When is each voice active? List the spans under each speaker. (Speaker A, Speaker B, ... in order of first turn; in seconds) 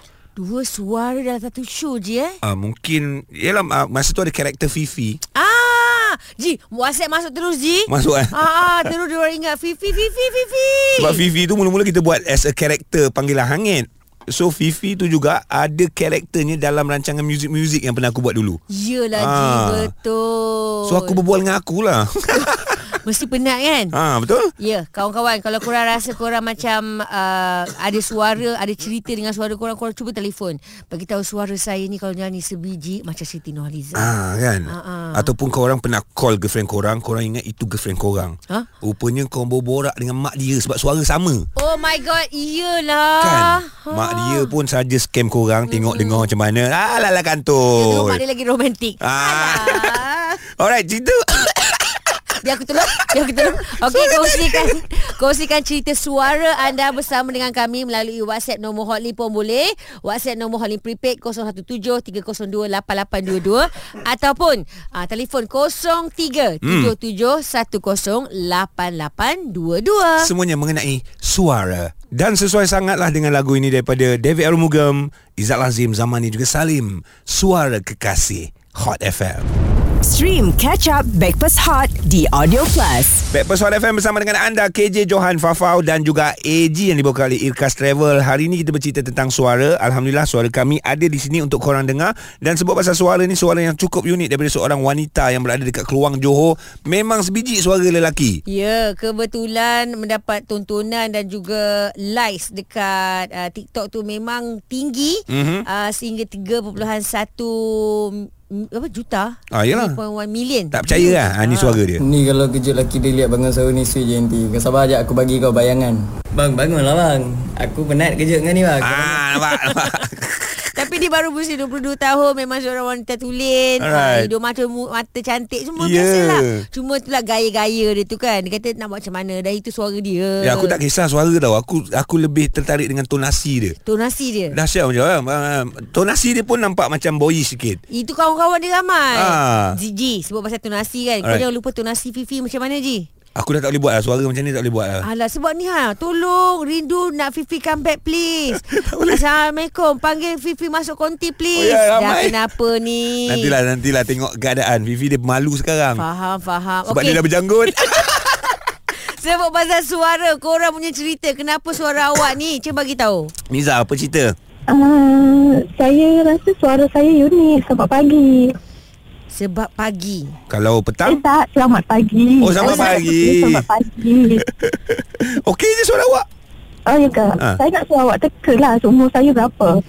Speaker A: 0.3-2.4, 5.3-11.2, 18.7-21.2, 22.9-23.9, 24.6-34.1, 34.7-35.3, 41.5-44.5, 45.7-46.3, 47.7-50.4, 52.4-70.3, 98.5-111.8, 119.4-120.0, 120.7-130.8, 133.8-134.6, 137.9-143.1, 145.0-153.5, 156.0-157.2, 158.9-163.3, 169.3-170.3, 172.6-173.0
Speaker B: 2.4-5.2, 7.9-8.9, 11.0-18.6, 19.1-19.9, 20.8-22.9, 23.9-24.5, 33.9-41.5, 43.2-48.2, 49.0-50.0, 50.5-51.9, 53.5-54.7, 66.6-66.9, 70.2-79.5, 83.3-98.4, 105.3-105.7, 109.5-110.0, 110.7-112.0, 118.8-120.8, 123.8-124.3, 125.8-126.6, 130.4-133.8, 134.5-137.8, 139.1-139.8, 143.3-145.1, 148.5-149.2, 151.5-152.4, 153.2-156.0, 156.9-158.5, 163.5-164.3, 170.5-171.2, 172.4-173.6, 174.5-176.2
Speaker C: 80.0-83.2
Speaker D: 112.0-119.2
Speaker E: 164.7-168.5, 171.0-174.4, 176.9-179.8